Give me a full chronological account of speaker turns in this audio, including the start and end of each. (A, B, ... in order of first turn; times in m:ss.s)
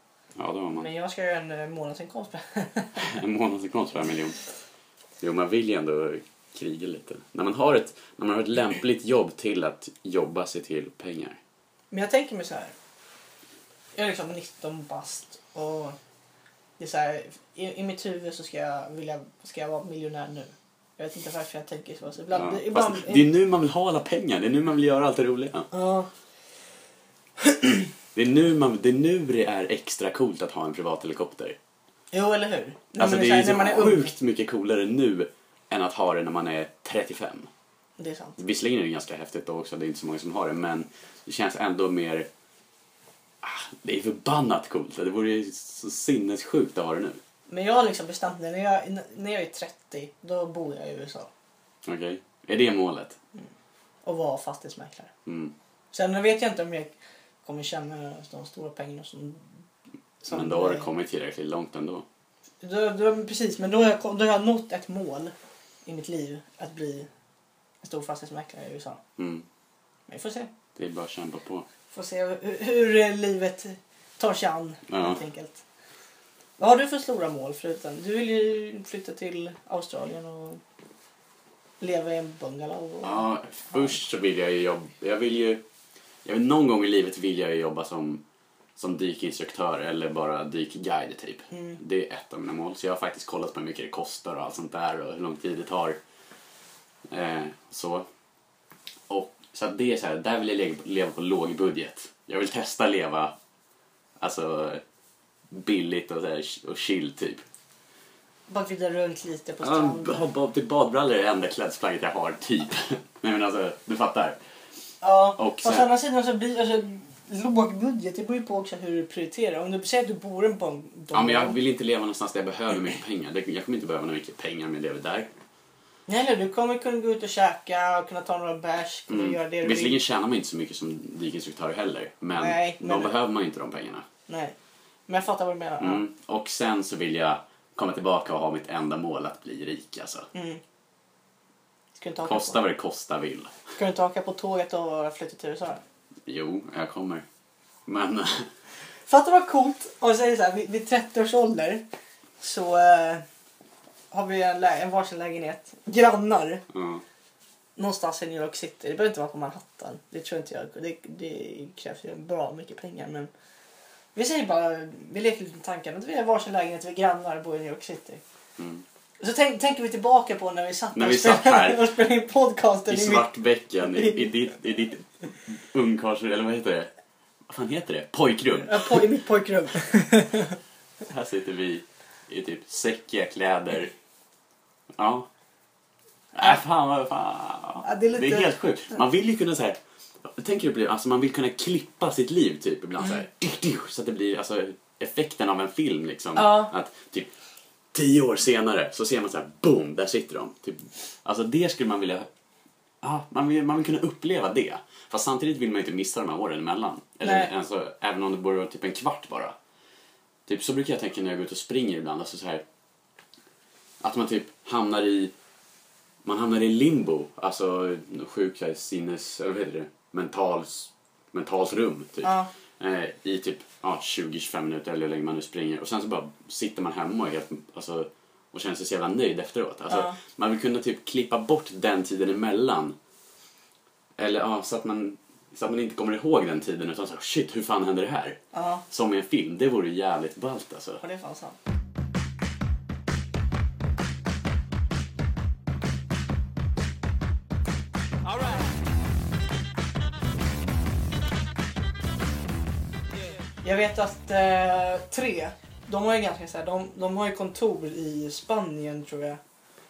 0:00.4-0:00.9 A
0:00.7-0:03.0 B
0:03.0-0:04.4 A
0:05.2-0:11.4 A
0:11.9-0:12.7 B
0:13.9-0:16.0 B
0:16.8-0:23.2 B
0:22.3-0:25.7 A
0:25.7-0:26.1 B
0:27.4-0:27.8 B
0:28.1-0:31.6 A
0:32.1-0:34.1 B
0:33.0-0:37.5 A
0:38.0-0:38.4 B
0:38.4-0:42.3 A
0:43.4-0:47.2 A
0:47.5-0:51.3 B
0:51.8-0:53.2 A
0:54.0-0:55.1 B
0:55.2-0:55.5 A
0:55.9-0:59.5 B
1:00.2-1:00.9 B
1:00.3-1:02.0 A
1:02.6-1:05.3 B
1:05.8-1:07.1 B
1:07.8-1:09.0 B
1:09.2-1:09.5 A
1:10.1-1:10.5 B
1:10.8-1:11.6 A
1:11.9-1:15.6 B
1:14.9-1:15.2 A
1:16.6-1:20.6 B
1:21.8-1:24.0 B
1:23.0-1:25.6 A
1:26.2-1:28.2 A
1:28.8-1:36.0 A
1:31.5-1:31.8 B
1:37.1-1:38.1 A
1:39.1-1:43.3 A
1:44.2-1:44.8 A
1:45.5-1:47.4 A
1:48.5-1:50.3 B
1:49.6-1:54.4 A
1:55.0-2:01.6 B
1:55.4-1:55.9 A
2:01.1-2:05.3 A
2:06.1-2:10.0 B
2:09.1-2:14.0 A
2:12.4-2:13.2 B
2:14.3-2:14.5 B
2:15.1-2:16.0 B
2:15.8-2:20.3 A
2:20.3-2:20.6 B
2:21.9-2:22.6 B
2:22.2-2:23.6 A
2:23.8-2:25.8 B
2:26.3-2:27.2 A
2:27.9-2:28.5 A
2:29.0-2:31.8 B
2:32.4-2:33.2 B
2:34.1-2:36.6 B
2:36.7-2:37.0 A
2:37.8-2:43.3 B
2:44.1-2:48.2 B
2:48.6-2:48.8 A
2:49.2-2:53.3 B
2:50.9-2:52.0 A
2:52.9-2:56.9 A
2:53.8-2:54.3 B
2:57.5-2:59.0 A
2:58.7-3:00.6 B
3:01.0-3:03.9 A
3:04.9-3:05.3 A
3:06.3-3:17.3 A
3:07.8-3:08.5 B
3:16.4-3:16.7 B
3:17.9-3:22.3 A
3:23.0-3:29.5 A
3:27.2-3:27.5 B
3:30.5-3:32.6 A
3:34.0-3:35.3 A
3:36.2-3:53.0 A
3:42.2-3:42.5 B
3:49.9-3:50.2 B
3:54.2-4:01.0 A
3:58.5-3:58.8 B
4:01.0-4:01.6 B
4:13.6-4:19.4 B